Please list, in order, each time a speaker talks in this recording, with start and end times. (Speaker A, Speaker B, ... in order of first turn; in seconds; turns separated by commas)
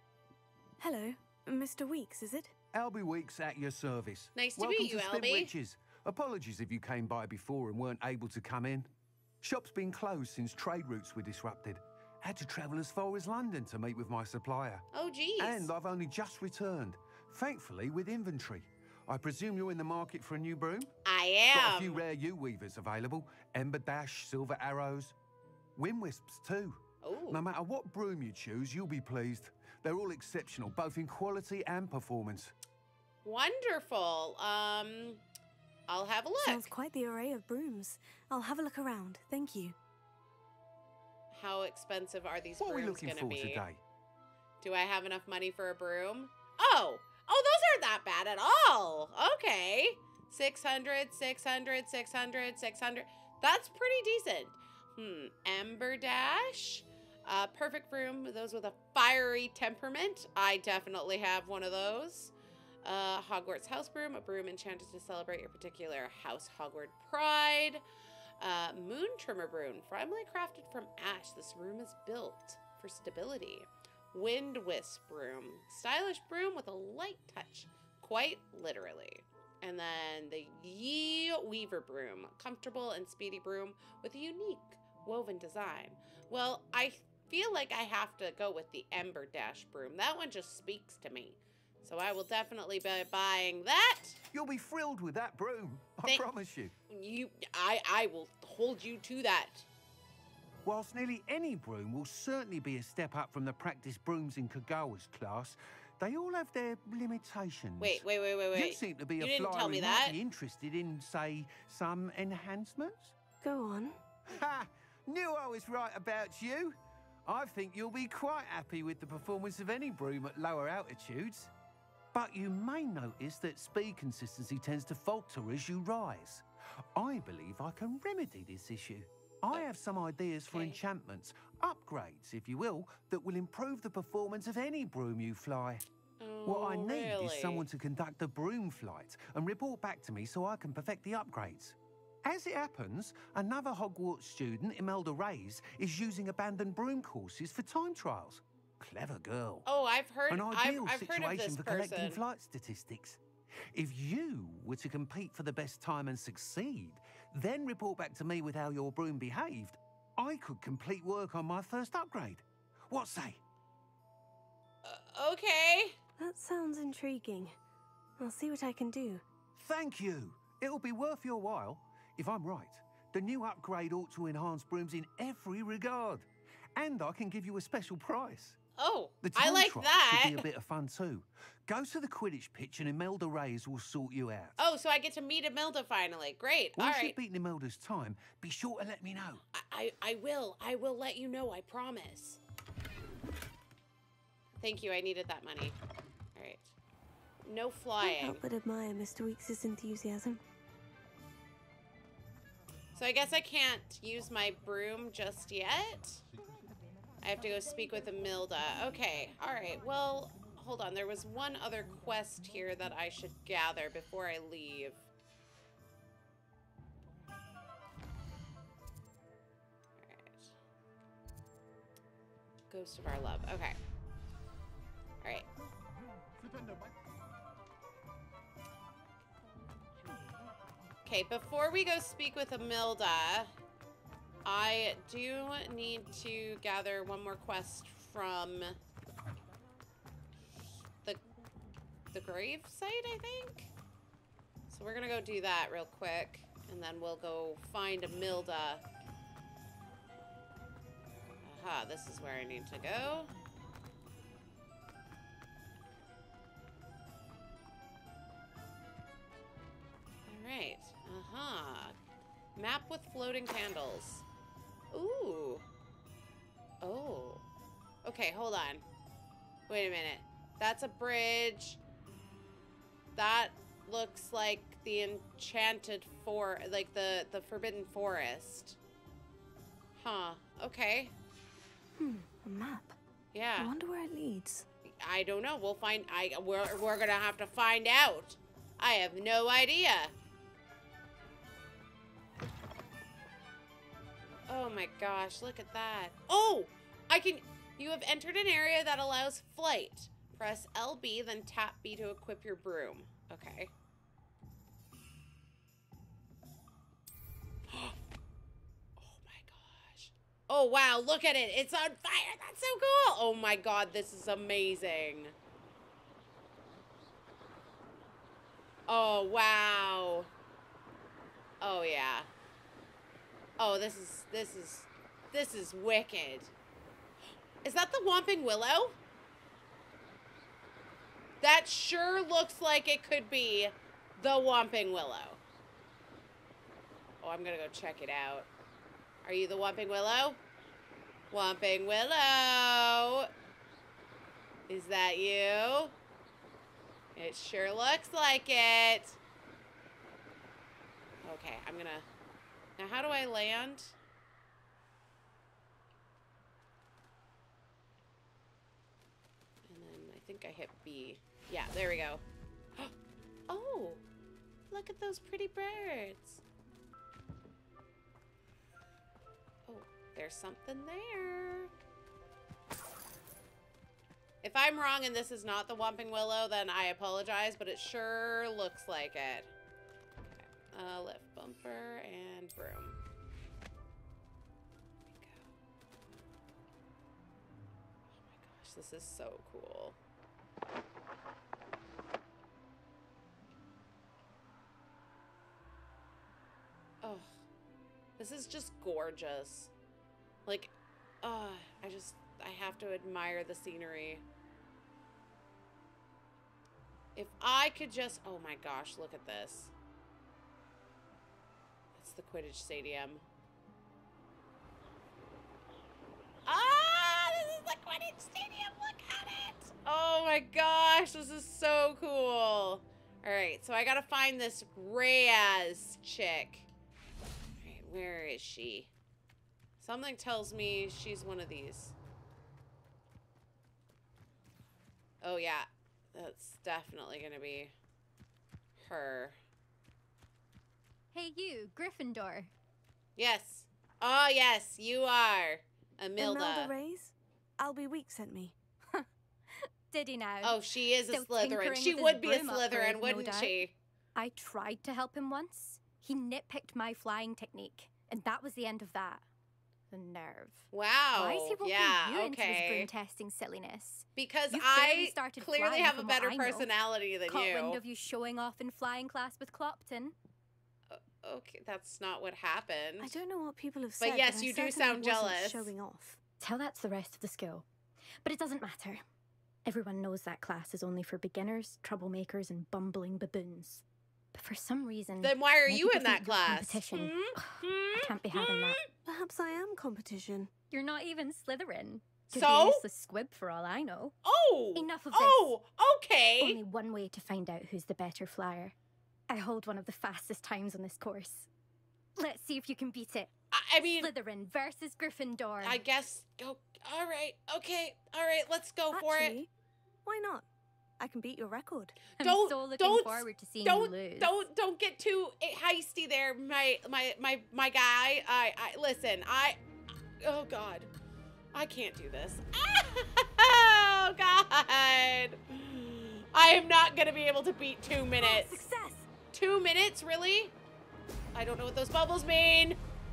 Speaker A: 0.8-2.5, Speaker B: 2.7-8.9, Speaker C: 4.3-5.5, Speaker B: 9.4-14.8, Speaker C: 14.9-15.7, Speaker B: 15.4-20.9, Speaker C: 21.1-22.0, Speaker B: 21.5-25.1, Speaker B: 25.8-32.5, Speaker C: 27.0-27.4, Speaker C: 33.2-35.2, Speaker C: 35.9-36.7, Speaker A: 36.4-39.8, Speaker C: 41.3-43.6, Speaker B: 42.6-43.8, Speaker C: 44.6-62.3, Speaker C: 62.8-67.8, Speaker C: 68.4-94.2, Speaker B: 94.3-96.7, Speaker C: 96.9-99.7, Speaker B: 100.6-113.1, Speaker C: 107.8-110.2, Speaker A: 113.4-114.0, Speaker B: 114.3-121.5, Speaker B: 122.1-126.4, Speaker B: 126.9-135.8, Speaker C: 130.5-130.8, Speaker C: 136.2-137.7, Speaker B: 136.4-149.7, Speaker C: 149.7-152.2, Speaker B: 150.3-153.2, Speaker B: 153.7-163.4, Speaker C: 164.8-165.9, Speaker A: 166.2-167.6, Speaker A: 168.2-169.2, Speaker B: 169.6-178.6, Speaker C: 178.8-180.4, Speaker B: 179.2-184.5, Speaker C: 184.6-187.1, Speaker B: 186.8-189.4, Speaker C: 189.5-192.4, Speaker C: 194.6-195.8, Speaker C: 196.3-196.7, Speaker C: 197.4-198.4, Speaker A: 198.0-200.4, Speaker C: 202.9-206.2, Speaker C: 207.2-215.0, Speaker C: 220.0-220.5, Speaker C: 222.7-223.8, Speaker C: 231.0-233.5, Speaker C: 234.4-238.8, Speaker C: 242.1-243.7, Speaker C: 244.7-248.8, Speaker C: 251.4-253.3, Speaker C: 260.3-261.9, Speaker C: 262.6-264.2, Speaker C: 264.9-265.6, Speaker C: 266.8-267.4, Speaker C: 268.0-268.8, Speaker C: 269.7-271.8, Speaker C: 273.1-278.8, Speaker C: 280.0-281.1, Speaker A: 281.9-282.9, Speaker C: 283.3-283.7, Speaker A: 283.6-284.7, Speaker C: 285.0-290.1, Speaker C: 294.5-303.7, Speaker C: 307.7-307.9, Speaker C: 309.0-315.3, Speaker C: 318.9-320.3, Speaker C: 321.6-322.3, Speaker C: 323.6-326.5, Speaker C: 327.6-329.0, Speaker C: 331.4-335.4, Speaker C: 337.2-338.5, Speaker C: 339.2-340.4, Speaker C: 341.3-343.3, Speaker C: 344.7-345.9, Speaker C: 347.1-349.2, Speaker C: 351.2-352.1, Speaker C: 352.8-353.9, Speaker C: 359.7-362.2, Speaker C: 363.5-364.0, Speaker C: 364.7-366.4, Speaker C: 369.7-371.7, Speaker C: 374.4-379.5, Speaker C: 380.3-383.0, Speaker C: 385.1-385.4, Speaker C: 388.2-390.0, Speaker C: 397.0-397.3, Speaker C: 398.2-399.7, Speaker C: 400.4-404.2, Speaker C: 407.1-409.7, Speaker C: 412.0-413.2, Speaker C: 416.4-426.7, Speaker C: 427.6-428.9, Speaker C: 429.8-431.9, Speaker C: 435.2-437.7, Speaker C: 438.8-439.4, Speaker D: 441.1-442.5, Speaker C: 443.2-446.7, Speaker A: 446.2-448.6, Speaker D: 449.9-453.6, Speaker C: 450.4-453.7, Speaker D: 454.1-459.2, Speaker D: 459.9-466.7, Speaker C: 460.7-462.9, Speaker C: 464.1-467.8, Speaker D: 467.3-470.1, Speaker C: 470.9-473.2, Speaker A: 473.0-476.2, Speaker C: 474.0-475.7, Speaker D: 476.4-477.7, Speaker D: 478.2-479.0, Speaker D: 479.6-488.8, Speaker C: 485.2-488.8, Speaker A: 489.1-490.5, Speaker D: 490.7-494.1, Speaker C: 492.3-492.8, Speaker C: 494.2-496.6, Speaker D: 494.7-495.5, Speaker D: 496.4-498.7, Speaker D: 499.3-501.5, Speaker D: 502.2-503.3, Speaker C: 503.5-504.1, Speaker D: 504.0-505.8, Speaker C: 505.6-509.4, Speaker A: 508.9-509.5, Speaker A: 510.0-510.4, Speaker A: 511.0-512.0, Speaker D: 512.2-514.5, Speaker C: 512.2-519.6, Speaker C: 520.2-520.9, Speaker C: 521.5-528.6, Speaker A: 528.2-529.1, Speaker C: 529.3-530.5, Speaker C: 531.3-532.8